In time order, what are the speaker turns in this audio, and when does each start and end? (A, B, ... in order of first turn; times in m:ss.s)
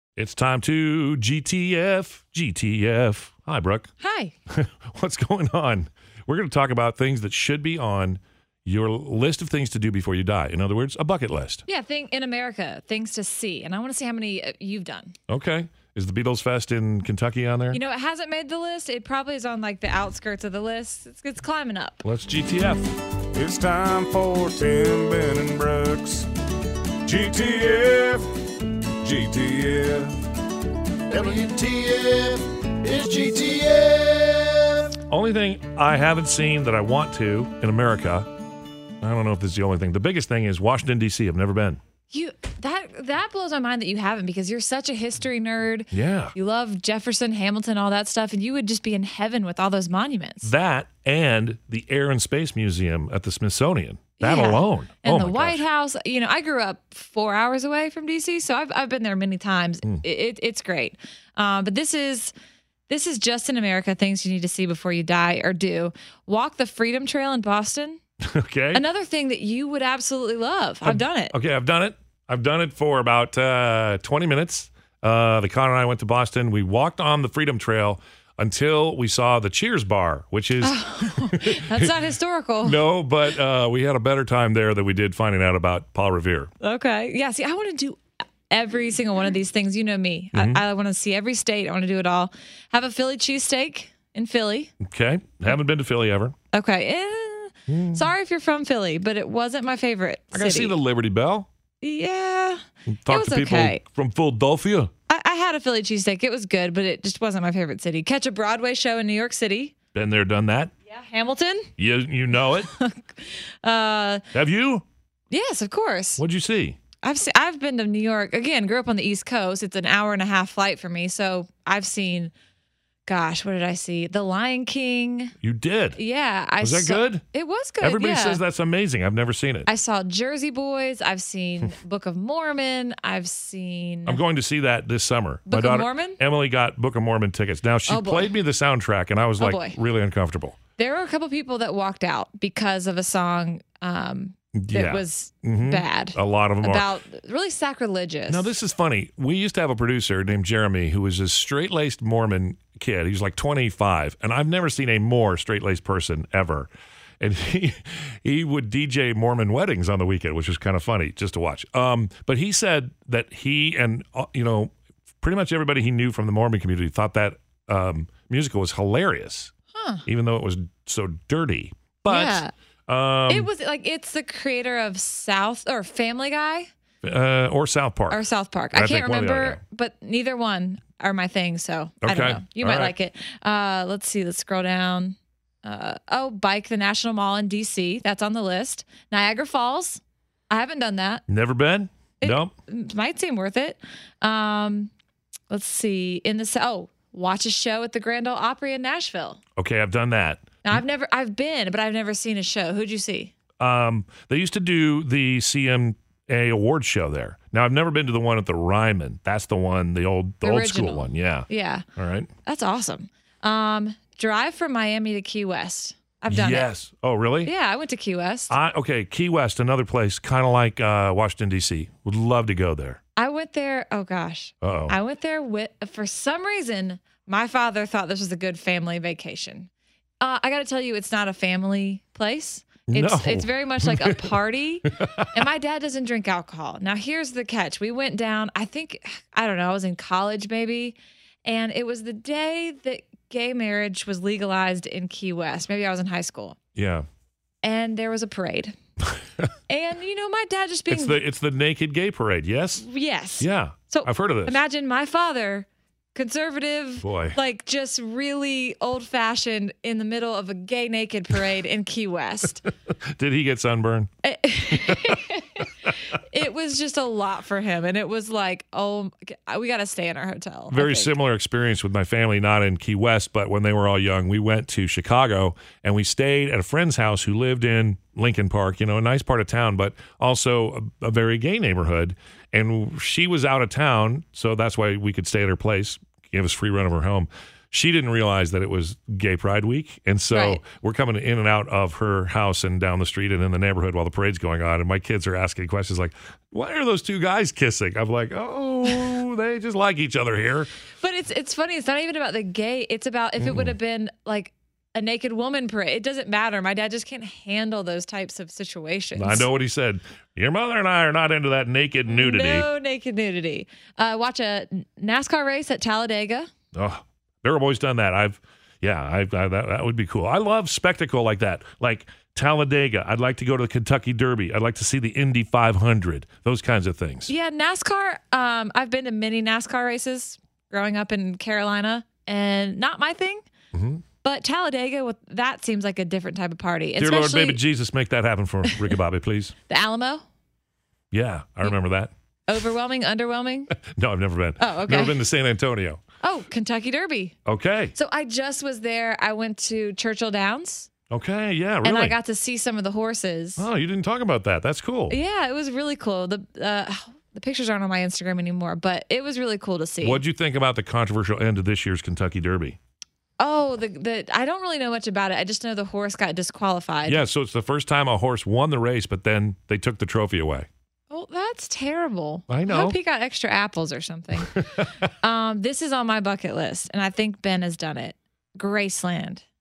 0:00.2-0:03.9 A
0:04.0-0:04.3 B
0:04.5-0:11.6 A
0:11.7-0:15.1 B
0:15.3-0:17.8 A
0:17.7-0:22.0 B
0:22.0-0:22.9 A
0:23.3-0:26.3 C
0:27.0-0:28.3 C
0:29.0-0:30.1 C
0:31.1-0:34.9 C
0:35.0-0:38.3 A
0:39.0-0:41.8 A
0:42.1-0:50.5 B
0:45.9-0:46.3 A
0:50.4-0:55.6 A
0:54.2-1:02.3 B
1:02.9-1:08.0 B
1:08.2-1:08.8 A
1:08.7-1:11.3 B
1:10.8-1:22.0 A
1:20.6-1:22.8 B
1:22.6-1:26.5 A
1:26.6-1:34.7 B
1:30.3-1:30.6 A
1:34.8-1:36.3 A
1:36.5-1:40.7 B
1:37.7-1:38.1 A
1:40.3-1:41.5 A
1:41.8-1:43.8 B
1:42.9-1:44.9 A
1:45.1-1:49.7 B
1:49.9-1:50.7 A
1:50.9-1:51.7 B
1:51.8-1:52.7 A
1:52.6-1:54.2 B
1:54.3-1:54.8 A
1:55.3-1:56.2 B
1:56.2-1:56.8 A
1:57.0-2:02.3 B
2:03.1-2:05.3 B
2:05.4-2:06.0 A
2:06.0-2:08.4 B
2:06.6-2:07.2 A
2:07.8-2:09.7 A
2:09.6-2:14.2 B
2:14.0-2:20.6 A
2:15.5-2:16.2 B
2:17.9-2:18.3 B
2:19.4-2:19.8 B
2:20.8-2:28.5 B
2:24.5-2:26.8 A
2:28.3-2:49.5 A
2:49.7-2:50.0 B
2:50.0-2:53.5 A
2:52.1-2:52.5 B
2:53.3-2:56.7 B
2:57.0-2:59.6 A
2:58.1-3:11.2 B
3:02.0-3:02.9 A
3:11.3-3:12.5 A
3:12.2-3:14.9 B
3:15.5-3:19.4 B
3:19.6-3:20.8 A
3:20.6-3:23.3 B
3:23.6-3:32.3 A
3:30.4-3:31.8 B
3:32.4-3:36.7 B
3:36.3-3:37.5 A
3:37.4-3:38.5 B
3:38.5-3:43.0 A
3:43.2-3:49.7 B
3:44.6-3:45.0 A
3:50.2-4:06.6 B
3:52.9-3:54.3 A
3:55.0-3:55.4 A
4:06.8-4:07.1 A
4:07.6-4:08.8 B
4:09.7-4:11.2 B
4:10.9-4:12.8 A
4:12.8-4:22.6 B
4:13.4-4:14.6 A
4:17.0-4:17.4 A
4:23.0-4:24.1 A
4:24.2-4:31.1 B
4:24.7-4:25.2 A
4:30.7-5:00.7 A
4:50.3-4:50.6 B
5:01.0-5:09.5 B
5:03.4-5:03.7 A
5:09.2-5:12.7 A
5:12.1-5:16.5 B
5:16.7-5:27.3 A
5:27.3-5:33.4 B
5:33.7-5:34.0 A
5:34.2-5:37.6 B
5:37.0-5:39.5 A
5:39.7-5:40.2 B
5:41.1-5:42.1 A
5:42.5-5:43.7 B
5:43.8-5:46.0 A
5:44.6-5:45.2 B
5:46.2-5:47.4 B
5:47.4-5:47.9 A
5:47.9-5:50.9 B
5:51.1-5:52.2 A
5:51.8-5:53.7 B
5:53.6-5:55.2 A
5:55.1-6:00.2 B
6:00.0-6:02.8 A
6:03.4-6:07.2 B
6:07.0-6:10.7 A
6:11.1-6:19.4 B
6:12.5-6:13.0 A
6:14.4-6:15.0 A